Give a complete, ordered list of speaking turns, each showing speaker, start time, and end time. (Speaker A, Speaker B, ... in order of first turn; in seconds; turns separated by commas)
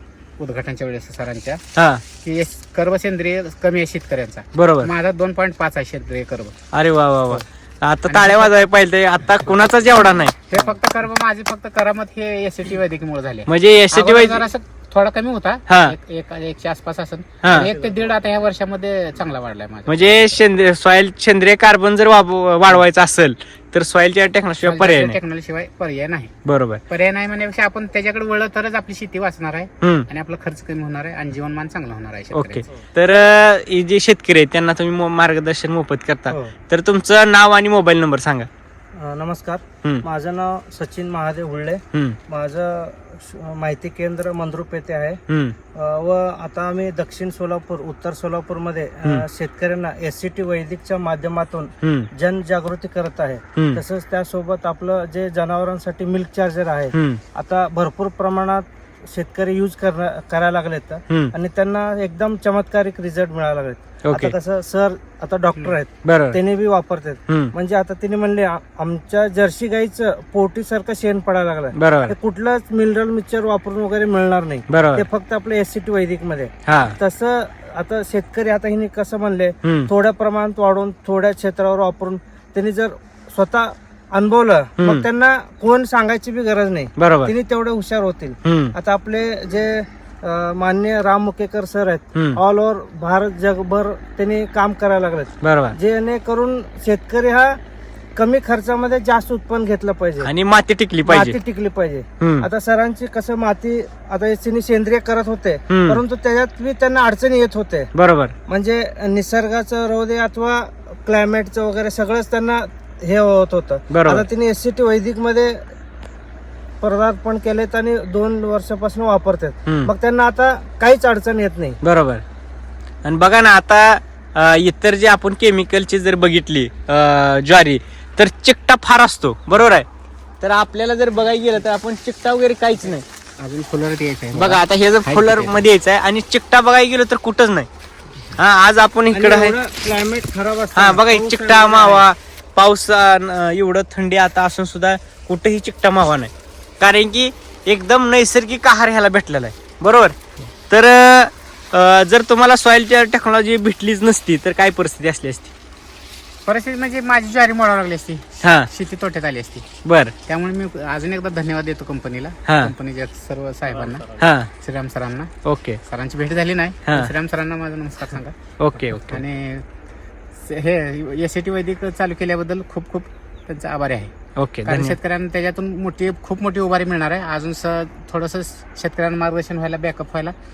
Speaker A: 0.4-1.6, Speaker B: 1.8-2.0, Speaker A: 2.2-6.5, Speaker B: 4.5-4.9, Speaker B: 6.7-10.4, Speaker A: 8.1-8.7, Speaker A: 10.5-20.4, Speaker B: 13.5-14.4, Speaker B: 15.7-15.9, Speaker B: 17.4-17.7, Speaker B: 19.9-25.2, Speaker A: 24.6-26.3, Speaker B: 26.4-26.8, Speaker A: 26.9-32.6, Speaker B: 32.3-38.5, Speaker C: 36.3-36.5, Speaker C: 38.9-45.2, Speaker B: 45.3-45.5, Speaker C: 45.7-97.6, Speaker B: 51.8-52.1, Speaker B: 53.5-53.8, Speaker B: 56.9-57.2, Speaker B: 64.0-64.3, Speaker B: 66.0-66.4, Speaker B: 67.3-67.5, Speaker B: 71.7-72.1, Speaker B: 74.7-75.0, Speaker B: 76.7-77.0, Speaker B: 79.6-79.9, Speaker B: 84.8-85.0, Speaker B: 87.0-87.3, Speaker B: 88.4-88.7, Speaker B: 95.4-95.8, Speaker C: 98.2-100.3, Speaker B: 100.2-101.4, Speaker C: 101.0-107.9, Speaker B: 102.2-102.5, Speaker B: 105.7-106.0, Speaker B: 107.9-108.3, Speaker C: 108.5-115.7, Speaker B: 113.9-114.2, Speaker C: 116.8-121.8, Speaker B: 119.7-119.9, Speaker B: 121.8-122.2, Speaker B: 123.0-129.8, Speaker B: 130.4-133.0, Speaker A: 133.4-135.7, Speaker B: 134.3-137.7, Speaker B: 138.4-139.6, Speaker C: 139.1-142.1, Speaker B: 140.7-150.2, Speaker B: 150.7-155.5, Speaker A: 156.4-159.7, Speaker B: 158.4-158.7, Speaker B: 159.8-160.1, Speaker A: 160.3-165.3, Speaker B: 162.5-162.7, Speaker B: 164.2-164.5, Speaker B: 165.4-165.8, Speaker A: 165.8-168.3, Speaker B: 166.8-167.1, Speaker B: 168.6-169.2, Speaker A: 168.9-169.6, Speaker A: 170.4-174.1, Speaker B: 174.4-174.9, Speaker A: 174.7-180.3